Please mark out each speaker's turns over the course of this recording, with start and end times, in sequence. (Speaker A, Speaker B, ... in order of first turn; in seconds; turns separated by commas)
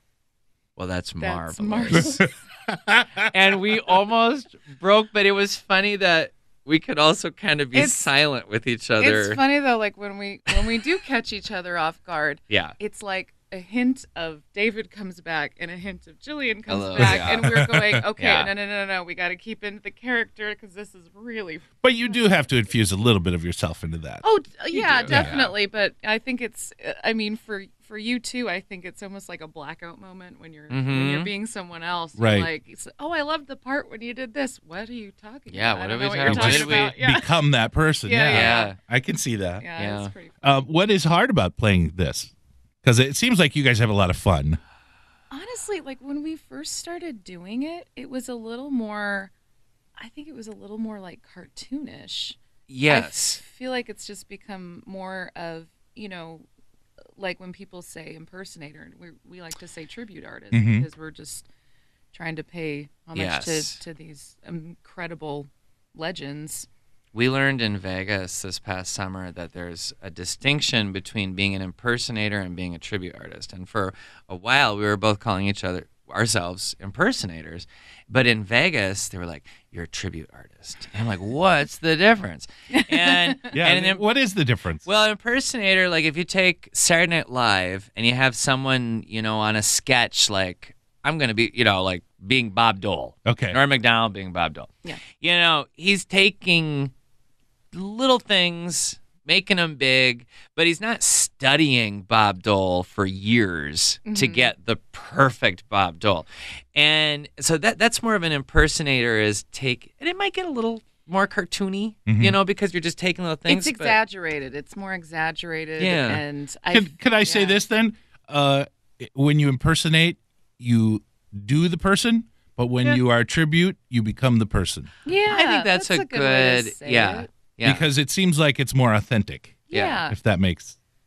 Speaker A: 0.8-2.2, Speaker B: 1.2-2.3, Speaker C: 1.9-3.3, Speaker A: 3.3-9.4, Speaker B: 7.7-8.0, Speaker B: 9.0-22.4, Speaker A: 12.5-12.8, Speaker A: 16.7-17.5, Speaker C: 17.0-18.1, Speaker A: 18.2-18.5, Speaker C: 21.8-24.2, Speaker B: 24.2-37.4, Speaker A: 24.7-25.5, Speaker C: 25.1-25.4, Speaker A: 30.7-31.3, Speaker C: 32.2-32.5, Speaker A: 35.5-37.0, Speaker C: 36.2-39.6, Speaker B: 38.0-38.8, Speaker A: 38.3-38.8, Speaker B: 39.6-40.4, Speaker A: 39.8-40.1, Speaker C: 40.4-42.3, Speaker C: 42.8-44.6, Speaker B: 45.3-49.3, Speaker B: 50.0-56.5, Speaker A: 52.7-53.4, Speaker B: 57.2-61.5, Speaker C: 60.5-60.9, Speaker B: 62.1-66.7, Speaker A: 63.1-63.8, Speaker A: 67.1-84.1, Speaker C: 83.5-84.8, Speaker A: 84.8-96.9, Speaker C: 93.2-93.6, Speaker A: 97.7-114.0, Speaker B: 104.1-104.5, Speaker C: 112.1-112.3, Speaker B: 113.5-117.6, Speaker A: 115.8-116.2, Speaker C: 116.7-124.9, Speaker B: 125.0-127.3, Speaker A: 125.3-127.8, Speaker C: 127.6-130.8, Speaker B: 129.7-130.2, Speaker A: 129.7-130.0